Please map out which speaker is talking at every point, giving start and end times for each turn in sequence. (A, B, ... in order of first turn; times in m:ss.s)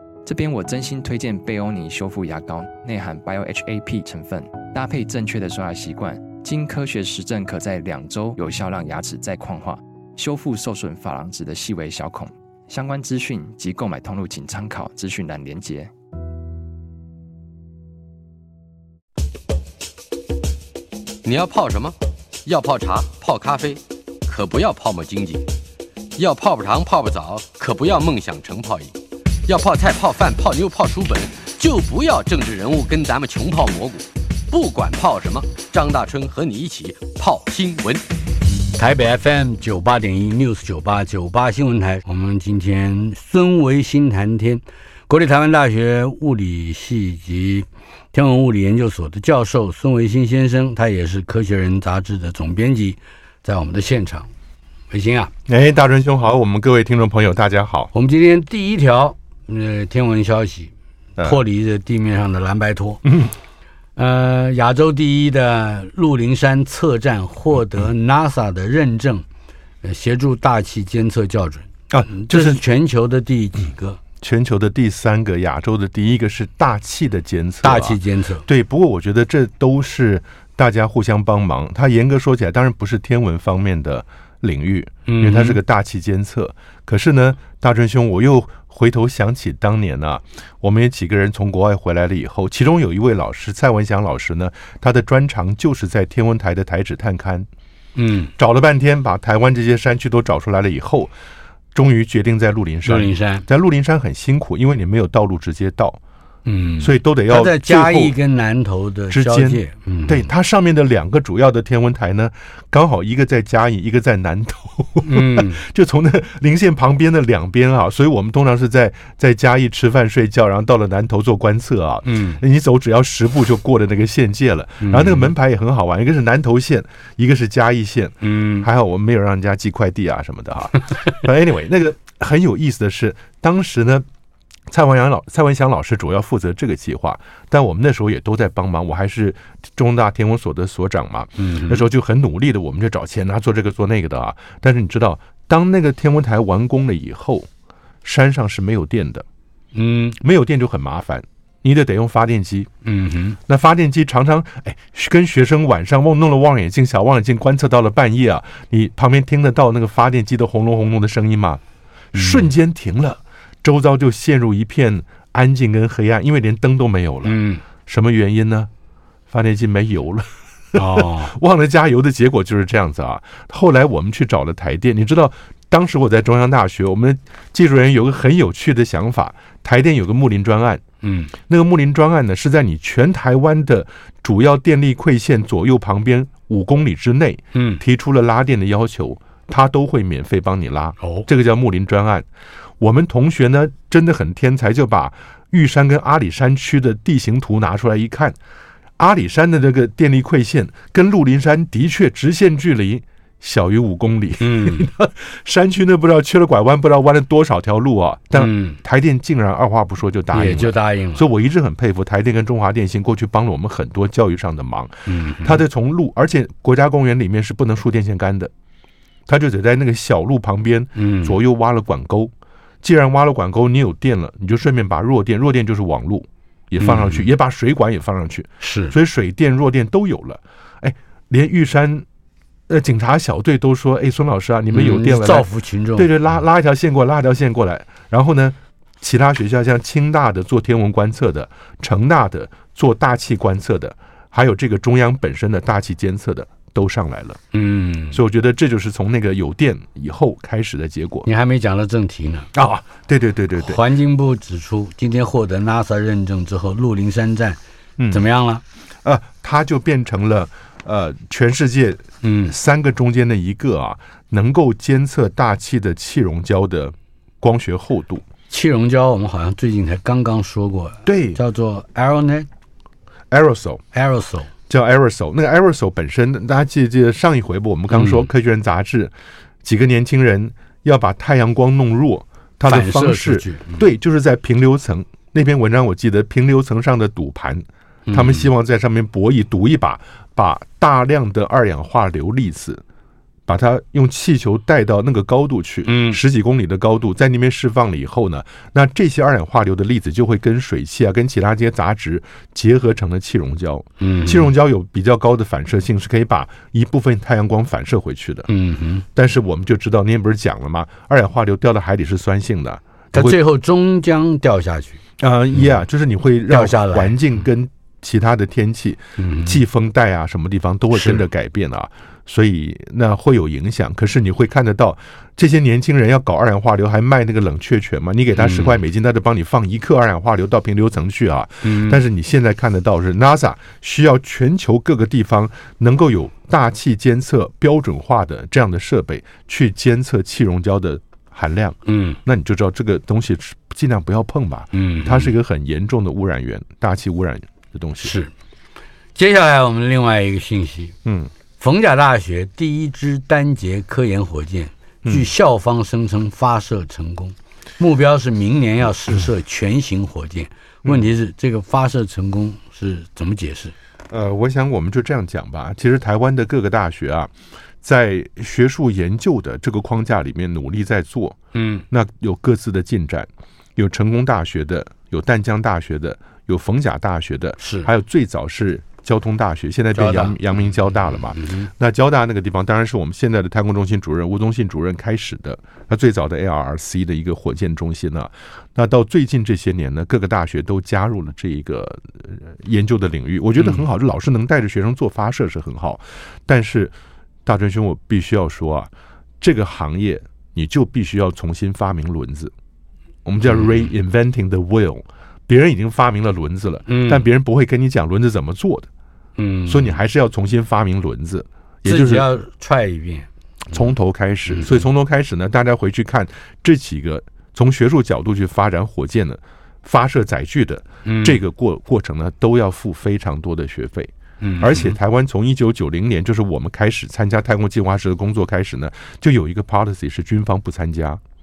0:00.2-0:15.9 A
0:21.2-0:25.4 B
0:26.2-0:28.9 B
0:29.4-0:38.0 B
0:38.8-0:54.3 C
0:54.9-0:55.3 C
0:55.5-0:57.9 D
0:57.9-1:03.0 C
1:03.0-1:03.3 D
1:04.0-1:09.2 C
1:09.8-1:14.0 C
1:11.9-1:12.6 D
1:14.2-1:37.5 D
1:17.6-1:18.4 C
1:25.0-1:25.6 C
1:38.0-1:38.3 C
1:38.4-1:41.1 D
1:41.7-1:46.0 D
1:42.8-1:43.4 C
1:46.4-1:50.3 C
1:46.8-1:48.1 D
1:49.1-2:14.0 D
1:55.0-1:55.6 C
2:02.0-2:02.4 C
2:04.8-2:05.3 C
2:08.2-2:08.7 C
2:14.7-2:27.5 D
2:21.4-2:21.8 C
2:28.0-2:29.2 D
2:29.7-2:30.2 C
2:30.2-2:32.7 D
2:32.8-2:33.4 C
2:33.5-2:41.6 D
2:42.1-2:42.5 C
2:42.1-2:48.7 D
2:47.2-2:47.6 C
2:49.3-3:00.8 D
2:50.7-2:51.3 C
3:01.0-3:01.3 C
3:01.4-3:12.3 D
3:07.5-3:07.8 C
3:11.0-3:11.3 C
3:12.8-3:18.4 D
3:19.0-3:38.5 D
3:24.4-3:24.9 C
3:28.3-3:28.8 C
3:30.3-3:31.2 C
3:35.0-3:35.6 C
3:39.3-3:52.0 D
3:41.0-3:41.4 C
3:46.8-3:47.3 C
3:48.6-3:48.9 C
3:52.7-4:07.4 D
3:54.7-3:56.2 C
4:07.5-4:08.2 C
4:08.1-4:11.3 D
4:11.2-4:12.5 C
4:12.5-4:13.8 D
4:13.6-4:17.6 C
4:18.0-4:18.2 D
4:18.1-4:18.6 C
4:19.0-4:28.2 D
4:22.2-4:22.5 C
4:28.5-4:32.5 C
4:31.0-4:31.4 D
4:33.3-4:33.8 D
4:33.9-4:34.5 C
4:34.7-4:39.1 D
4:37.9-4:38.3 C
4:39.6-4:52.8 D
4:42.6-4:43.8 C
4:48.1-4:48.5 C
4:53.5-5:08.5 D
4:55.8-4:56.2 C
5:04.0-5:04.5 C
5:08.5-5:09.0 C
5:09.1-5:13.4 D
5:13.1-5:15.0 C
5:15.2-5:48.1 D
5:16.5-5:17.2 C
5:19.2-5:19.6 C
5:20.9-5:21.2 C
5:28.4-5:28.8 C
5:31.6-5:32.0 C
5:41.9-5:42.2 C
5:44.7-5:45.3 C
5:48.0-5:48.3 C
5:49.1-5:51.0 C
5:51.0-5:51.3 D
5:51.6-6:03.7 C
5:55.0-5:55.3 D
6:04.1-6:07.3 D
6:07.8-6:11.4 D
6:11.5-6:11.8 C
6:11.9-6:36.9 D
6:17.6-6:17.9 C
6:19.9-6:20.4 C
6:21.3-6:21.7 C
6:33.6-6:33.8 C
6:37.4-6:42.5 D
6:43.2-6:48.9 D
6:43.4-6:43.9 C
6:46.9-6:47.2 C
6:49.4-6:50.0 C
6:49.7-6:52.3 D
6:51.8-6:53.8 C
6:53.7-7:11.2 D
6:54.5-6:54.8 C
7:01.0-7:01.4 C
7:04.4-7:05.0 C